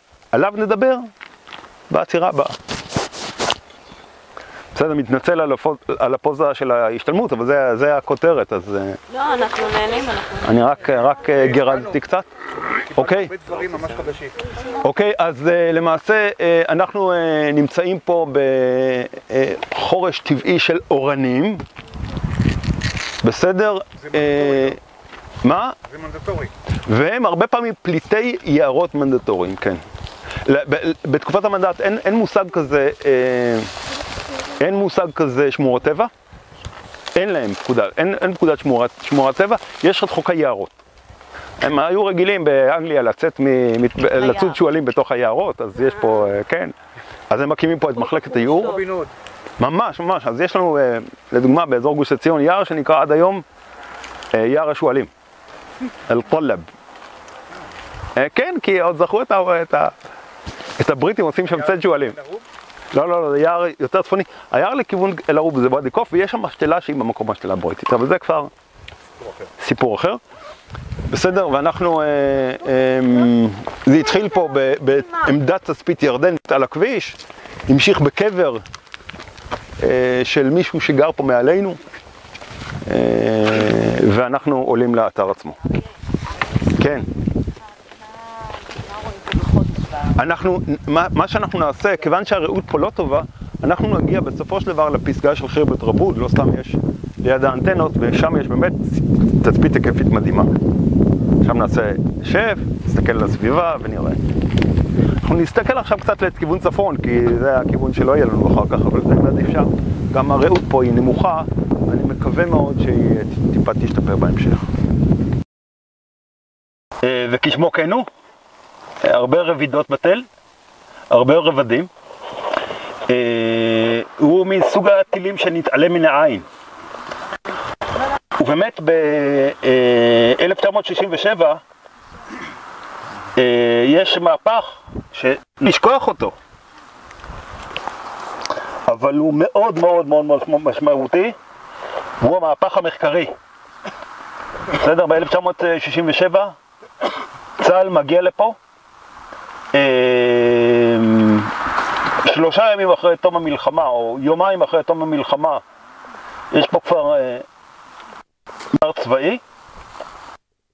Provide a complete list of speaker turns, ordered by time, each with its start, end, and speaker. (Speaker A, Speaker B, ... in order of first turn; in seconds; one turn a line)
Speaker A: 0.3-1.1
Speaker A: 1.9-2.6
Speaker A: 4.7-9.0
Speaker B: 9.2-10.2
Speaker A: 10.4-12.3
Speaker C: 11.3-12.0
Speaker C: 12.7-14.5
Speaker A: 13.0-13.3
Speaker A: 14.8-21.6
Speaker A: 23.2-24.8
Speaker C: 24.0-24.8
Speaker A: 25.4-25.8
Speaker C: 25.8-26.5
Speaker A: 26.9-29.8
Speaker A: 30.5-33.7
Speaker A: 34.6-36.1
Speaker A: 37.2-40.8
Speaker A: 41.6-46.7
Speaker A: 47.3-48.8
Speaker C: 48.5-49.1
Speaker A: 49.6-53.5
Speaker A: 54.3-55.1
Speaker A: 56.1-56.7
Speaker A: 58.2-59.9
Speaker A: 60.8-62.2
Speaker C: 61.5-62.5
Speaker A: 62.9-68.5
Speaker A: 69.6-70.2
Speaker A: 71.1-78.6
Speaker A: 79.8-81.8
Speaker A: 82.9-85.6
Speaker A: 86.8-87.1
Speaker B: 87.9-90.2
Speaker A: 90.2-100.5
Speaker A: 101.4-104.2
Speaker A: 105.2-114.7
Speaker A: 117.0-118.1
Speaker A: 119.0-120.3
Speaker A: 121.1-121.9
Speaker A: 123.1-126.5
Speaker A: 128.4-131.6
Speaker A: 133.4-136.4
Speaker A: 138.9-141.4
Speaker A: 142.2-143.3
Speaker A: 144.8-146.6
Speaker A: 147.6-148.6
Speaker A: 149.7-151.5
Speaker A: 152.2-155.6
Speaker A: 156.5-157.4
Speaker A: 158.7-159.4